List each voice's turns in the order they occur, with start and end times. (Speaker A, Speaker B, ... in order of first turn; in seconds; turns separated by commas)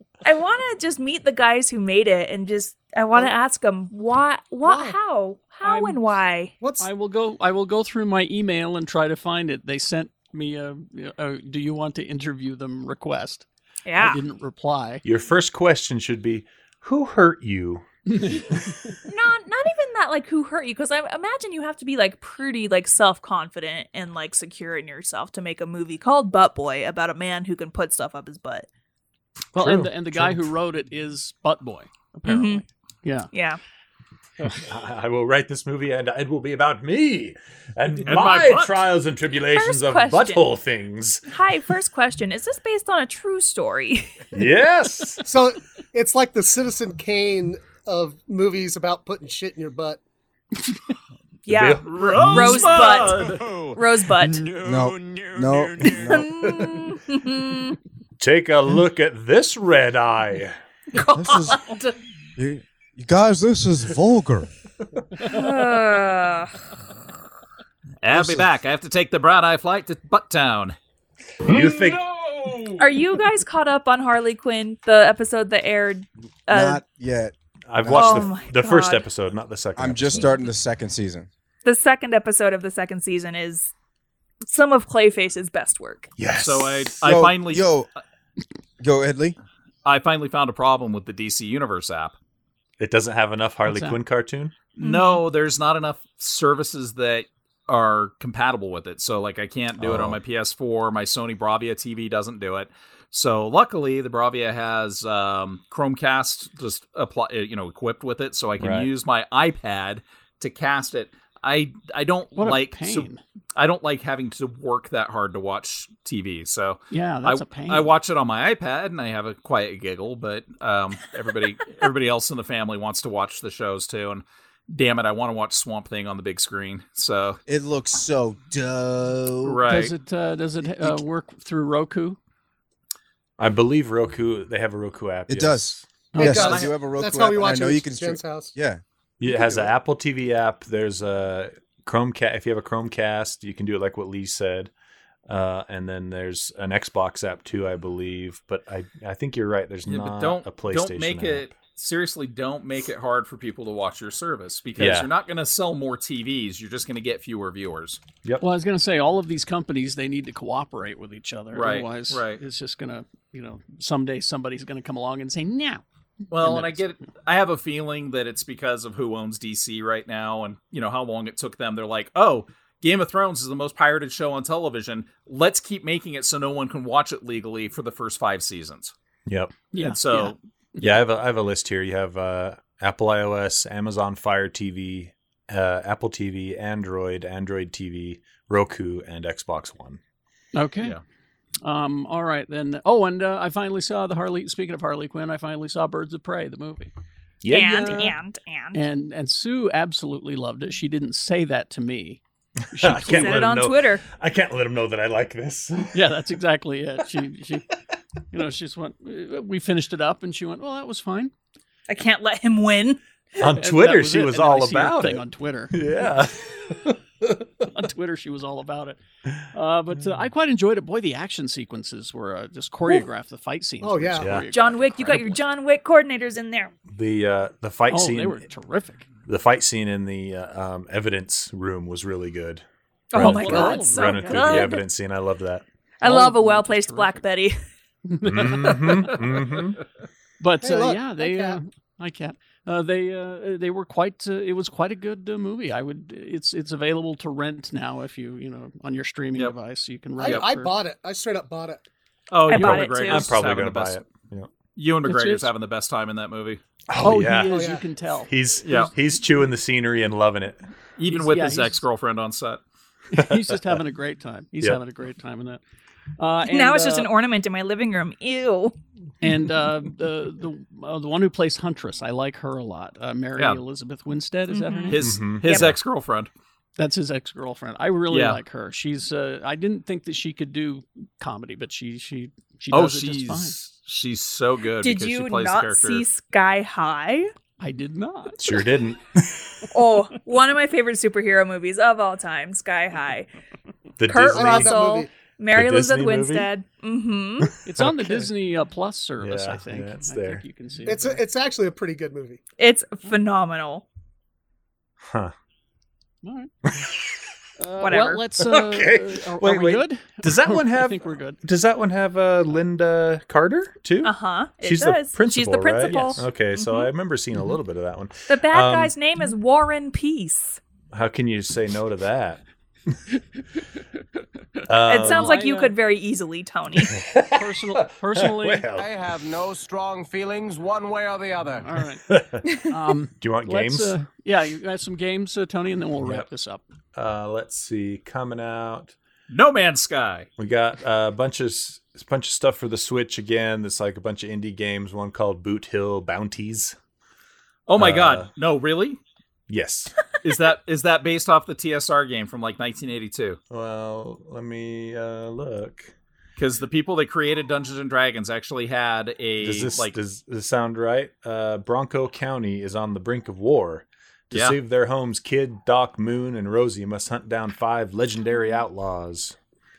Speaker A: 0.2-6.5, Speaker B: 4.6-5.0, Speaker C: 5.6-6.0, Speaker B: 6.6-6.9, Speaker C: 6.8-13.5, Speaker A: 13.9-14.2, Speaker C: 14.0-15.0, Speaker D: 15.0-18.3, Speaker C: 18.1-18.4, Speaker A: 19.1-28.7, Speaker C: 29.6-33.3, Speaker D: 29.6-30.5, Speaker A: 32.3-32.6, Speaker A: 33.3-33.6, Speaker D: 34.6-41.2, Speaker E: 38.1-38.9, Speaker A: 39.5-40.5, Speaker A: 41.3-44.2, Speaker D: 44.3-45.2, Speaker B: 45.2-50.0, Speaker A: 51.5-54.5, Speaker D: 51.5-53.0, Speaker E: 51.9-53.5, Speaker F: 54.6-56.3, Speaker A: 56.0-57.8, Speaker D: 58.2-60.6, Speaker A: 60.9-62.0, Speaker F: 61.1-61.6, Speaker F: 62.4-64.5, Speaker A: 65.2-66.5, Speaker E: 68.0-70.8, Speaker F: 68.1-68.5, Speaker D: 71.5-72.0, Speaker E: 71.5-72.8, Speaker A: 72.8-76.8, Speaker F: 76.5-78.3, Speaker D: 77.7-80.4, Speaker A: 77.9-79.1, Speaker F: 79.8-81.3, Speaker A: 81.6-83.7, Speaker A: 84.5-86.1, Speaker D: 86.2-86.9, Speaker E: 86.3-87.7, Speaker F: 87.0-87.9, Speaker F: 88.8-89.4, Speaker E: 89.8-92.2, Speaker D: 92.8-94.5, Speaker C: 93.7-94.0, Speaker E: 94.8-127.4, Speaker A: 94.8-95.2, Speaker D: 99.8-100.2, Speaker D: 108.6-108.9, Speaker C: 112.4-113.2, Speaker C: 116.9-117.9, Speaker F: 127.5-129.7, Speaker E: 129.4-129.9, Speaker C: 129.7-132.2, Speaker D: 133.4-135.8, Speaker F: 135.3-138.8, Speaker C: 136.1-136.7, Speaker B: 136.2-138.5, Speaker D: 139.2-144.7, Speaker D: 145.3-151.5, Speaker E: 149.9-158.0, Speaker D: 154.8-155.1, Speaker C: 158.4-166.9, Speaker E: 161.5-162.4, Speaker E: 166.3-178.9, Speaker D: 179.3-179.7, Speaker C: 179.7-180.9, Speaker E: 179.7-180.4, Speaker D: 180.8-190.0, Speaker C: 190.6-191.0, Speaker C: 191.6-196.9, Speaker D: 197.4-198.1, Speaker A: 197.5-198.8, Speaker C: 198.7-202.2, Speaker C: 202.7-203.5, Speaker D: 202.8-206.1, Speaker A: 202.9-204.0, Speaker C: 205.9-207.7, Speaker C: 208.3-211.3, Speaker A: 211.9-213.0, Speaker D: 213.4-217.4, Speaker C: 213.4-215.8, Speaker C: 217.7-219.0, Speaker C: 219.5-225.4, Speaker B: 223.8-224.4, Speaker D: 224.2-224.4, Speaker A: 224.5-226.8, Speaker D: 226.9-228.4, Speaker C: 227.9-229.1, Speaker D: 229.3-235.6, Speaker A: 233.1-234.9, Speaker C: 233.2-234.8, Speaker A: 236.0-237.6, Speaker C: 236.0-237.2, Speaker C: 238.1-239.4, Speaker D: 238.2-239.8, Speaker C: 240.4-250.7, Speaker B: 240.6-241.6, Speaker B: 250.2-251.8, Speaker E: 250.2-250.5, Speaker E: 252.3-254.0, Speaker A: 252.4-253.4, Speaker D: 252.6-254.5, Speaker E: 254.8-256.6, Speaker C: 255.0-255.5, Speaker D: 256.9-257.7, Speaker C: 257.0-258.9, Speaker B: 257.5-257.8, Speaker D: 258.3-260.6, Speaker E: 258.6-258.9, Speaker E: 261.0-262.6, Speaker C: 261.1-261.8, Speaker C: 263.1-265.6, Speaker D: 263.2-263.6, Speaker C: 266.2-267.1, Speaker A: 266.4-268.8, Speaker C: 269.2-275.6, Speaker A: 274.5-275.7, Speaker E: 274.9-276.3, Speaker D: 275.0-275.8, Speaker C: 276.8-283.6, Speaker E: 278.1-278.4, Speaker E: 282.7-286.1, Speaker A: 284.8-287.3, Speaker C: 287.6-288.4, Speaker D: 288.4-289.6, Speaker A: 289.7-293.3, Speaker D: 294.0-294.7, Speaker A: 294.0-297.6, Speaker B: 294.3-295.1, Speaker D: 295.5-296.5, Speaker C: 297.6-301.2, Speaker D: 297.8-298.3, Speaker D: 299.2-300.4, Speaker B: 300.9-302.4, Speaker A: 302.6-303.9, Speaker D: 305.0-305.3, Speaker C: 306.2-306.5, Speaker D: 306.7-307.1, Speaker C: 307.6-311.4, Speaker A: 307.8-308.2, Speaker D: 308.4-318.9, Speaker A: 314.0-316.9, Speaker C: 315.8-316.3, Speaker A: 318.3-320.6, Speaker D: 320.9-322.4, Speaker D: 324.7-325.4, Speaker A: 324.9-327.0, Speaker C: 325.0-325.7, Speaker D: 326.9-328.9, Speaker C: 327.3-328.7, Speaker G: 328.8-331.7, Speaker C: 331.6-332.1, Speaker D: 332.1-332.5, Speaker C: 332.7-336.6, Speaker D: 333.2-333.9, Speaker D: 336.9-338.9, Speaker E: 339.3-340.3, Speaker D: 340.4-346.8, Speaker E: 347.7-349.0, Speaker D: 347.8-348.3, Speaker D: 349.5-349.9, Speaker E: 350.2-353.4, Speaker D: 353.5-355.9, Speaker E: 356.4-359.9, Speaker D: 359.4-369.4, Speaker E: 364.3-364.6